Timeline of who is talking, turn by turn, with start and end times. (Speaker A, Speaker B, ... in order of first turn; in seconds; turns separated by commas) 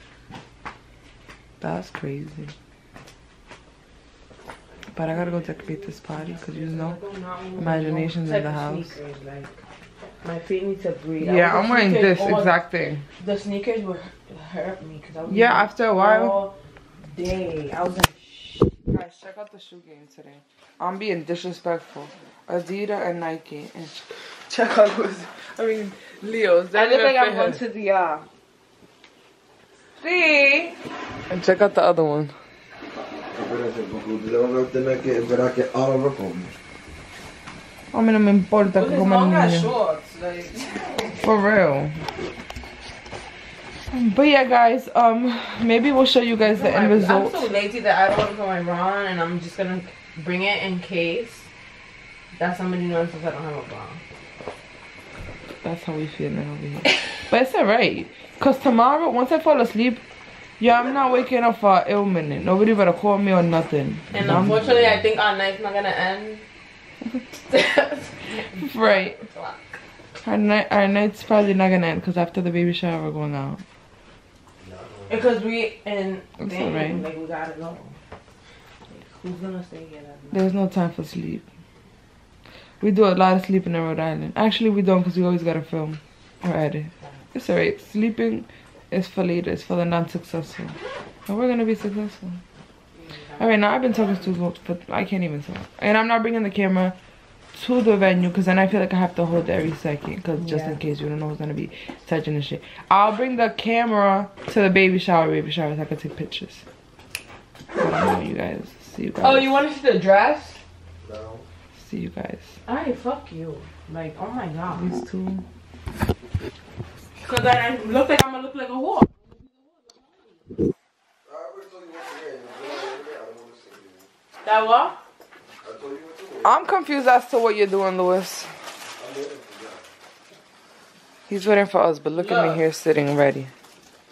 Speaker A: 1.6-2.5, Speaker A: 4.9-7.0, Speaker B: 5.1-9.6, Speaker A: 7.6-8.9, Speaker B: 10.2-12.6, Speaker A: 11.2-13.0, Speaker B: 13.2-18.7, Speaker A: 15.3-16.4, Speaker A: 18.9-27.6, Speaker B: 26.7-28.2, Speaker A: 30.0-30.8, Speaker A: 31.3-32.3, Speaker C: 33.3-36.6, Speaker A: 37.9-39.8, Speaker B: 38.7-41.2, Speaker A: 41.2-42.0, Speaker A: 43.9-47.5, Speaker B: 46.4-51.5, Speaker B: 52.4-54.0, Speaker A: 55.6-60.0, Speaker A: 60.6-64.6, Speaker B: 64.1-66.4, Speaker C: 64.2-65.1, Speaker B: 67.5-69.8, Speaker A: 68.6-69.2, Speaker A: 70.2-73.6, Speaker C: 74.6-75.3, Speaker B: 75.1-78.0, Speaker A: 76.4-77.1, Speaker B: 78.9-80.5, Speaker A: 80.3-81.5, Speaker A: 82.8-90.8, Speaker A: 91.3-92.4, Speaker B: 93.0-93.7, Speaker A: 93.4-97.0, Speaker A: 97.5-106.6, Speaker B: 100.4-100.8, Speaker A: 107.8-109.6, Speaker B: 109.2-110.6, Speaker C: 111.0-111.5, Speaker A: 111.8-112.5, Speaker B: 112.7-114.9, Speaker A: 114.7-115.4, Speaker B: 117.2-119.1, Speaker C: 121.2-124.1, Speaker B: 124.4-125.0, Speaker C: 125.6-126.5, Speaker A: 126.4-128.5, Speaker C: 129.0-129.9, Speaker A: 131.3-133.5, Speaker B: 132.2-132.6